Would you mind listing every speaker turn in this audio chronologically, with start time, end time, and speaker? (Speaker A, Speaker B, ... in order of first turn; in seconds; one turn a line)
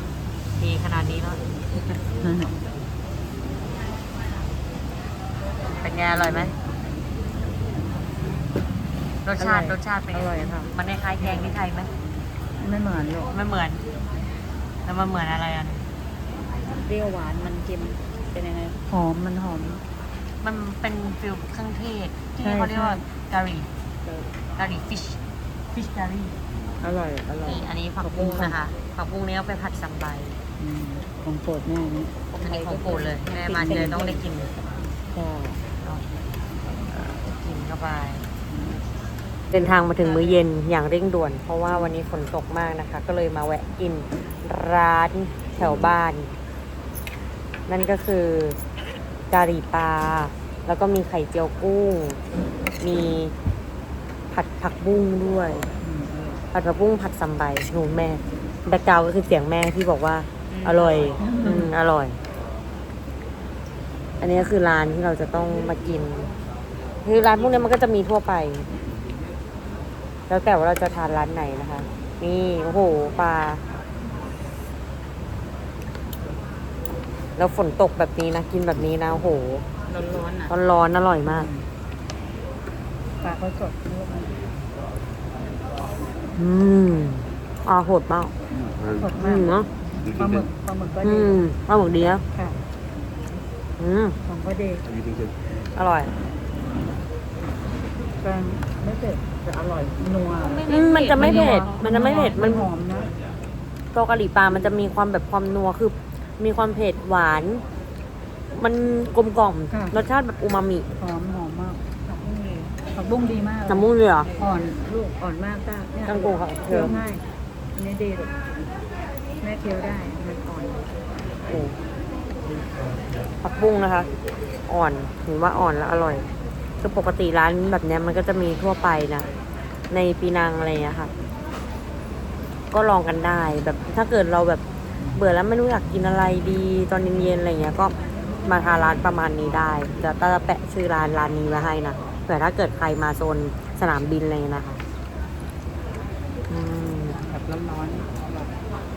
Speaker A: 0.6-1.4
Speaker B: 2.2-2.5
Speaker A: 5.8-6.5
Speaker A: 9.2-11.9
Speaker B: 9.4-11.5
Speaker B: 12.6-13.3
Speaker A: 13.3-13.8
Speaker A: 14.8-15.8
Speaker B: 16.8-19.8
Speaker A: 20.4-23.7
Speaker B: 22.4-23.0
Speaker A: 24.6-25.2
Speaker A: 25.7-26.4
Speaker B: 26.8-28.6
Speaker A: 27.4-30.4
Speaker B: 30.6-34.2
Speaker A: 32.4-34.5
Speaker B: 35.1-35.6
Speaker A: 36.9-38.3
Speaker A: 39.5-46.3
Speaker B: 40.0-40.3
Speaker A: 47.7-48.6
Speaker A: 49.3-52.2
Speaker A: 52.8-53.3
Speaker A: 54.3-55.7
Speaker B: 55.8-56.4
Speaker A: 56.5-62.2
Speaker B: 60.5-61.7
Speaker A: 64.2-66.3
Speaker A: 67.0-68.7
Speaker A: 70.3-73.6
Speaker A: 77.4-79.7
Speaker B: 79.9-80.5
Speaker A: 80.5-81.5
Speaker B: 81.2-81.7
Speaker B: 83.2-84.4
Speaker A: 86.3-88.3
Speaker B: 89.0-91.4
Speaker A: 89.2-89.7
Speaker A: 91.0-92.2
Speaker A: 93.8-94.2
Speaker B: 94.2-94.9
Speaker A: 95.7-96.1
Speaker B: 98.2-103.1
Speaker A: 100.7-102.7
Speaker A: 103.9-107.6
Speaker A: 108.5-110.9
Speaker B: 111.0-117.2
Speaker A: 113.7-114.3
Speaker A: 116.0-117.0
Speaker B: 117.8-118.3
Speaker B: 119.4-120.9
Speaker A: 121.5-121.8
Speaker A: 123.4-124.1
Speaker A: 124.7-126.2
Speaker A: 126.8-129.3
Speaker A: 129.9-131.1
Speaker A: 132.7-134.6
Speaker A: 135.2-137.9
Speaker A: 138.4-144.8
Speaker A: 146.5-147.2
Speaker B: 147.2-148.5